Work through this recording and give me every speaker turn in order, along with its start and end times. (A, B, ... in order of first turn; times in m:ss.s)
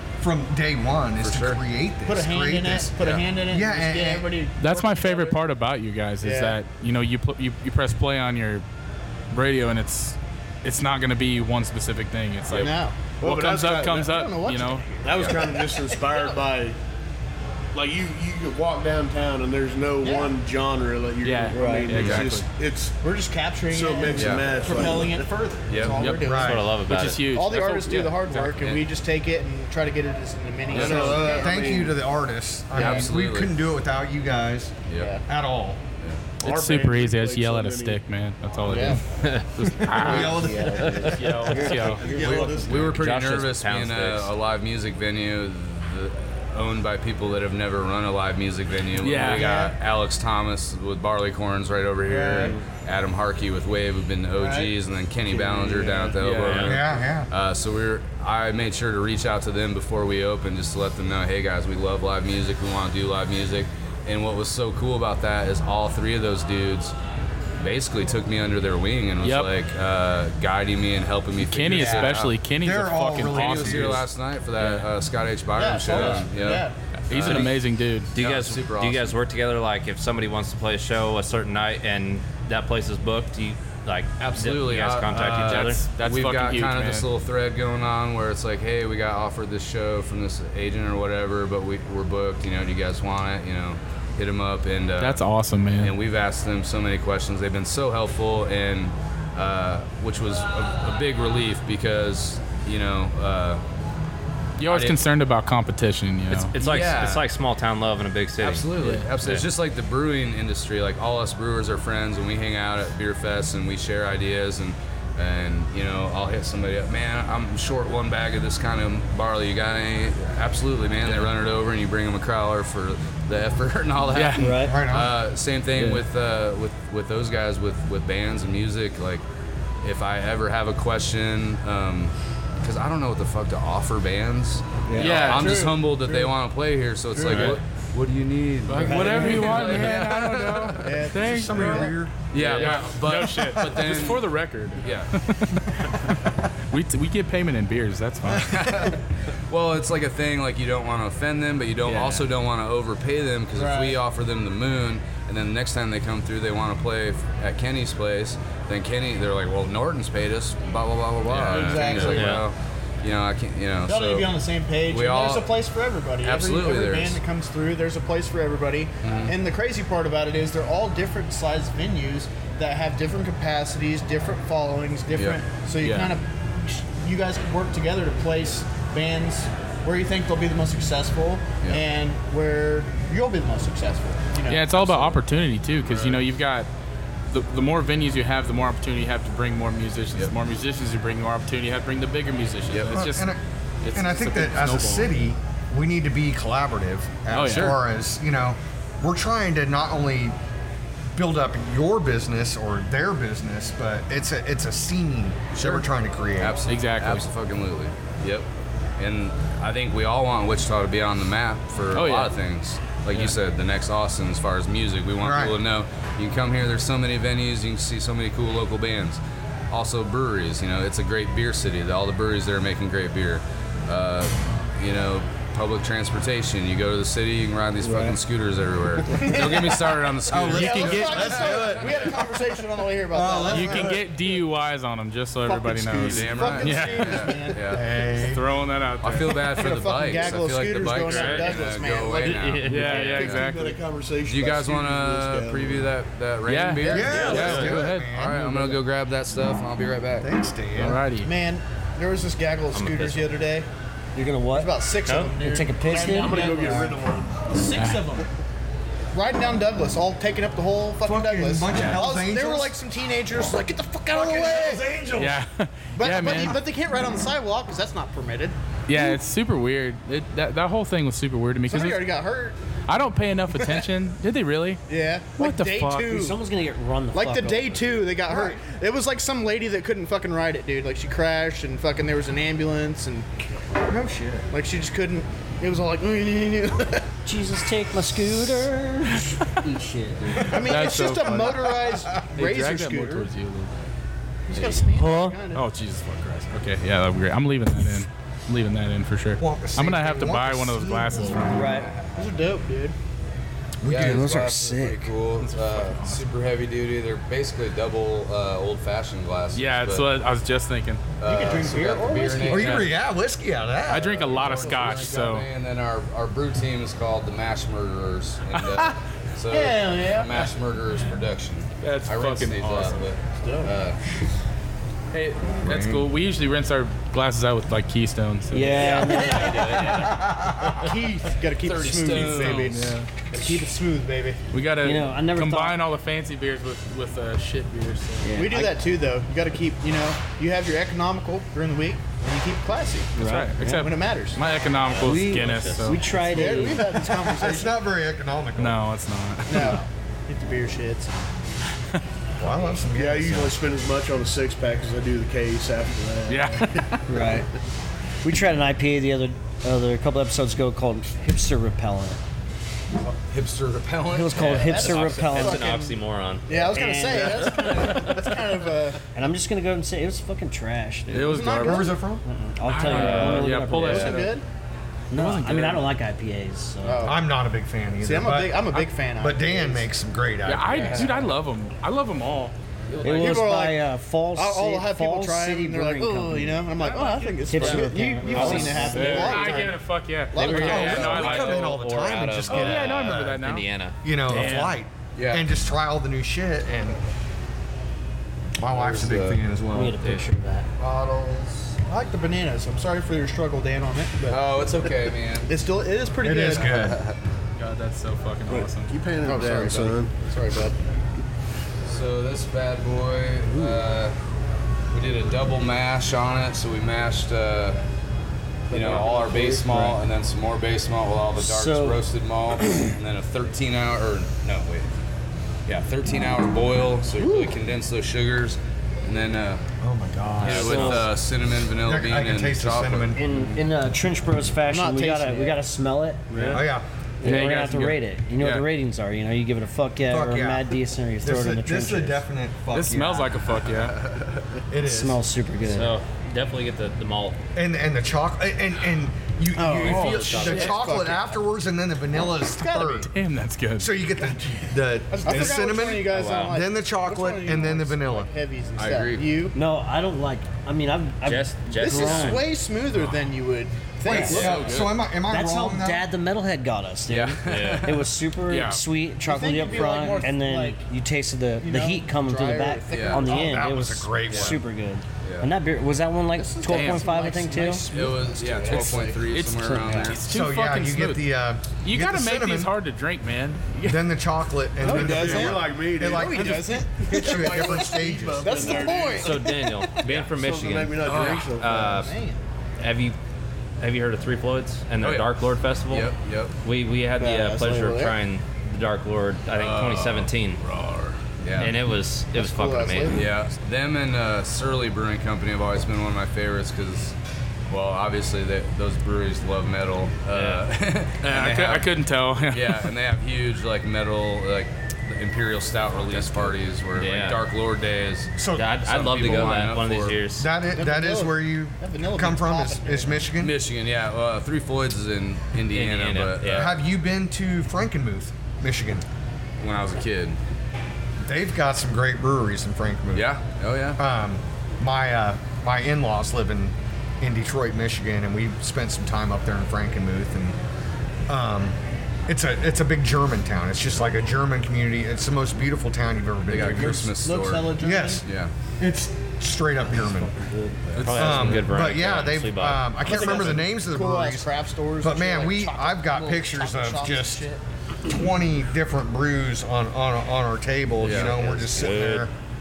0:00.2-0:03.0 A
0:01.2-0:01.6 B
0:02.0-0:05.4 C
0:03.5-0:04.3 A
0:04.6-0:08.6 D
0:06.2-0:06.6 C
0:09.3-0:14.8 D
0:12.5-0:13.1 C
0:13.2-0:14.1 E
0:14.0-0:16.4 C
0:15.0-0:16.8 E
0:17.7-0:23.0 E
0:20.0-0:20.4 C
0:21.2-0:22.4 D
0:21.5-0:21.9 F
0:21.9-0:22.3 B
0:23.0-0:26.7 C
0:23.7-0:25.3 E
0:24.2-0:24.6 B
0:25.7-0:26.0 B
0:25.8-0:26.3 D
0:26.2-0:26.7 A
0:26.4-0:27.2 G
0:26.8-0:28.6 D
0:27.2-0:31.6 C
0:28.4-0:28.8 B
0:30.7-0:32.0 E
0:30.8-0:35.8 A
0:32.7-0:33.6 B
0:32.8-0:33.0 C
0:34.9-0:35.1 B
0:35.0-0:35.2 C
0:36.0-0:36.3 B
0:36.4-0:38.0 E
0:36.4-0:39.0 D
0:38.7-0:39.0 C
0:38.8-0:41.1 G
0:39.6-0:41.2 A
0:39.7-0:42.0 D
0:40.0-0:43.0 F
0:41.1-0:43.0 E
0:42.2-1:06.9 B
0:42.8-0:44.3 G
0:49.0-0:49.5 D
0:49.4-0:49.8 C
0:52.0-0:52.6 C
0:54.4-0:54.8 C
0:55.3-0:56.1 C
0:56.2-0:56.8 D
0:56.4-0:56.8 G
0:56.6-0:57.3 A
1:07.6-1:12.4 B
1:09.2-1:09.5 D
1:11.4-1:14.1 D
1:11.7-1:14.0 A
1:13.2-1:17.6 B
1:14.6-1:14.9 D
1:15.6-1:16.8 C
1:17.0-1:18.1 D
1:17.1-1:17.5 G
1:18.1-1:25.9 G
1:18.2-1:19.2 B
1:24.2-1:35.2 B
1:25.1-1:27.1 D
1:35.0-1:36.0 D
1:35.8-1:43.6 B
1:44.6-1:46.5 D
1:44.7-1:45.0 B
1:46.3-1:49.4 G
1:46.6-1:47.2 B
1:48.4-2:09.2 B
1:48.8-1:49.1 D
2:04.1-2:04.6 D
2:04.4-2:04.8 F
2:04.6-2:05.2 A
2:05.8-2:06.0 D
2:09.8-2:21.0 B
2:15.0-2:15.7 D
2:15.0-2:16.4 C
2:17.1-2:17.6 C
2:17.2-2:17.6 D
2:18.7-2:29.0 D
2:18.8-2:19.9 F
2:20.8-2:22.0 C
2:21.2-2:22.1 A
2:22.3-2:24.3 B
2:24.8-2:25.1 B
2:28.4-2:44.3 B
2:31.8-2:32.3 D
2:33.6-2:34.0 C
2:41.4-2:41.8 D
2:41.4-2:42.4 C
2:41.4-2:42.5 G
2:43.9-3:05.2 C
2:44.8-2:45.5 B
2:46.2-2:47.2 B
2:49.0-2:49.4 B
2:55.1-2:55.4 B
2:55.8-2:56.1 D
3:04.5-3:06.7 D
3:05.8-3:06.2 B
3:07.3-3:13.3 D
3:12.7-3:13.0 B
3:12.9-3:13.4 A
3:13.8-3:15.1 D
3:13.9-3:20.4 A
3:17.3-3:17.8 D
3:21.1-3:26.6 A
3:25.6-3:25.8 B
3:26.4-3:28.5 B
3:26.7-3:27.2 D
3:29.0-3:52.1 B
3:31.9-3:32.3 D
3:33.1-3:33.4 D
3:35.2-3:35.6 A
3:49.1-3:49.8 C
3:50.3-3:52.4 A
3:50.4-3:51.4 D
3:50.5-3:54.0 C
3:53.1-3:54.0 A
3:53.5-3:59.4 D
3:55.4-3:57.7 C
3:56.0-3:57.9 B
3:57.7-3:58.4 A
3:59.0-4:03.5 B
3:59.5-4:02.6 C
4:01.0-4:03.4 G
4:02.6-4:03.8 D
4:02.8-4:05.9 E
4:04.2-4:10.3 B
4:06.5-4:08.2 D
4:06.8-4:08.6 A
4:07.0-4:07.8 E
4:07.2-4:07.6 G
4:10.2-4:11.0 A
4:10.8-4:11.3 D
4:11.2-4:13.7 C
4:12.7-4:13.3 G
4:14.2-4:16.6 F
4:14.5-4:18.3 C
4:15.9-4:17.5 E
4:17.8-4:18.0 D
4:19.1-4:24.8 C
4:21.0-4:22.7 A
4:24.1-4:24.8 A
4:24.2-4:25.4 E
4:25.2-4:26.6 D
4:26.0-4:28.6 C
4:28.9-4:32.1 D
4:31.7-4:32.6 C
4:32.9-4:34.8 D
4:33.6-4:33.9 C
4:34.9-4:36.4 C
4:35.4-4:36.1 D
4:36.0-4:38.0 F
4:37.1-4:43.3 C
4:38.3-4:38.6 A
4:43.9-4:44.4 A
4:44.5-4:47.0 C
4:47.2-4:50.6 F
4:50.4-4:53.3 C
4:50.5-4:51.5 D
4:51.3-4:52.0 A
4:52.2-4:53.9 D
4:54.5-4:55.6 C
4:54.5-4:55.4 F
4:55.5-5:01.9 D
4:59.4-5:01.6 A
5:01.5-5:01.9 F
5:02.2-5:03.0 C
5:03.8-5:04.3 A
5:03.8-5:10.1 B
5:03.9-5:05.1 F
5:05.4-5:06.3 D
5:09.5-5:11.0 D
5:11.2-5:12.9 B
5:11.2-5:12.8 C
5:12.5-5:14.5 A
5:12.5-5:12.9 D
5:13.9-5:15.5 D
5:14.2-5:24.0 B
5:14.6-5:15.1 C
5:19.5-5:20.6 C
5:21.8-5:23.1 D
5:23.4-5:23.8 C
5:25.1-5:29.3 D
5:25.6-5:26.1 A
5:28.5-5:29.9 F
5:28.8-5:29.9 G
5:28.8-5:30.0 C
5:30.0-5:30.9 A
5:30.8-5:34.4 C
5:31.6-5:32.8 B
5:32.1-5:33.1 D
5:34.5-5:38.3 D
5:34.8-5:35.8 F
5:38.2-5:38.8 F
5:38.3-5:44.4 C
5:43.2-5:43.8 F
5:43.2-5:46.0 D
5:45.0-5:46.0 G
5:45.0-5:47.1 F
5:46.1-5:47.8 C
5:47.3-5:48.8 A
5:48.6-5:49.8 D
5:49.5-5:51.2 C
5:52.4-5:53.6 A
5:52.9-5:56.8 E
5:56.3-5:57.1 D
5:57.1-5:57.5 F
5:58.2-6:02.2 F
6:03.0-6:04.6 B
6:04.1-6:05.8 F
6:04.3-6:06.5 G
6:04.4-6:06.0 C
6:06.5-6:09.0 C
6:06.6-6:07.5 F
6:07.3-6:08.2 B
6:09.1-6:11.4 F
6:11.1-6:12.0 D
6:11.2-6:12.1 C
6:11.6-6:12.2 A
6:12.2-6:14.2 F
6:12.7-6:14.4 D
6:12.8-6:13.5 G
6:13.8-6:14.1 B
6:13.8-6:14.4 C
6:15.1-6:17.1 F
6:15.1-6:15.9 D
6:16.8-6:17.2 C
6:17.0-6:21.3 A
6:18.0-6:19.9 C
6:20.4-6:22.6 D
6:20.7-6:21.2 B
6:22.9-6:23.4 B
6:23.0-6:26.6 F
6:23.0-6:29.8 C
6:26.8-6:27.4 D
6:27.5-6:29.4 F
6:27.6-6:29.5 G
6:28.4-6:31.8 D
6:30.3-6:34.0 G
6:30.4-6:31.0 C
6:30.5-6:33.4 A
6:32.5-6:33.6 D
6:34.0-6:37.0 A
6:34.3-6:34.8 D
6:35.2-6:35.5 B
6:38.6-6:40.0 A
6:38.7-6:39.4 B
6:39.7-6:40.7 F
6:40.8-6:41.8 B
6:41.9-6:44.9 C
6:44.3-6:45.5 B
6:45.5-6:46.8 C
6:46.2-6:47.0 A
6:46.4-6:47.2 B
6:47.6-6:49.0 D
6:48.5-6:50.1 E
6:49.2-6:50.8 C
6:51.8-6:54.2 B
6:54.9-6:57.8 B
6:58.7-7:04.9 B
6:58.7-7:00.0 F
7:01.4-7:02.0 F
7:02.6-7:02.9 F
7:05.7-7:09.6 B
7:07.2-7:07.6 F
7:09.8-7:11.1 A
7:10.4-7:11.1 F
7:10.4-7:13.5 B
7:10.5-7:11.0 G
7:11.8-7:13.2 A
7:13.1-7:16.7 F
7:14.7-7:15.6 C
7:16.3-7:16.7 G
7:16.5-7:16.9 A
7:17.2-7:18.7 D
7:17.2-7:22.2 F
7:20.1-7:23.4 A
7:22.7-7:24.0 D
7:23.7-7:24.5 B
7:24.7-7:25.2 A
7:24.8-7:26.0 F
7:25.6-7:27.4 G
7:27.6-7:33.1 A
7:29.5-7:31.4 C
7:29.8-7:30.2 D
7:29.9-7:30.8 G
7:32.4-7:33.1 C
7:33.0-7:34.0 D
7:33.8-7:38.3 A
7:35.1-7:39.6 C
7:36.1-7:36.6 G
7:38.8-7:39.3 B
7:39.5-7:42.5 F
7:41.2-7:42.5 G
7:41.8-7:44.8 C
7:44.0-7:46.1 A
7:44.1-7:44.4 F
7:44.3-7:44.8 B
7:44.3-7:45.0 D
7:45.3-7:57.8 F
7:47.1-7:48.1 B
7:47.4-7:47.9 G
7:48.5-7:48.8 D
7:49.2-7:50.9 C
7:51.6-7:53.6 C
7:52.9-7:53.3 B
7:53.2-7:54.6 A
7:54.3-7:54.6 B
7:55.2-7:55.5 B
7:56.3-7:59.3 C
7:56.7-7:57.1 D
7:57.7-8:00.2 B
7:58.7-8:04.1 D
7:59.6-7:59.9 F
7:59.8-8:00.1 C
8:00.2-8:02.7 A
8:03.8-8:08.7 A
8:04.8-8:07.7 C
8:04.8-8:12.1 E
8:08.4-8:09.8 C
8:09.1-8:12.1 G
8:11.0-8:11.6 B
8:11.8-8:12.4 C
8:12.8-8:13.2 G
8:13.8-8:16.1 G
8:15.0-8:15.3 B
8:15.9-8:16.6 B
8:16.6-8:20.6 G
8:17.2-8:18.2 C
8:19.5-8:21.9 B
8:21.6-8:23.2 G
8:22.3-8:23.3 C
8:23.2-8:27.2 B
8:27.7-8:31.9 B
8:30.3-8:30.6 G
8:31.2-8:32.9 D
8:32.5-8:40.2 B
8:36.0-8:37.4 G
8:38.4-8:39.2 A
8:38.5-8:40.5 G
8:40.4-8:43.6 A
8:40.6-8:43.3 C
8:43.4-8:46.7 B
8:45.7-8:46.8 G
8:46.5-8:49.0 A
8:49.6-8:50.4 B
8:51.2-8:53.3 A
8:53.1-8:54.0 B
8:54.0-9:00.6 A
9:01.3-9:01.8 A
9:02.3-9:07.2 A
9:06.5-9:08.5 B
9:06.6-9:08.2 C
9:07.8-9:08.2 A
9:08.8-9:10.4 A
9:09.9-9:11.0 F
9:11.0-9:11.5 B
9:11.0-9:11.6 D
9:11.0-9:13.6 G
9:11.2-9:14.5 A
9:13.0-9:17.6 C
9:15.0-9:17.5 A
9:18.1-9:22.3 A
9:21.0-9:21.4 B
9:21.0-9:22.3 G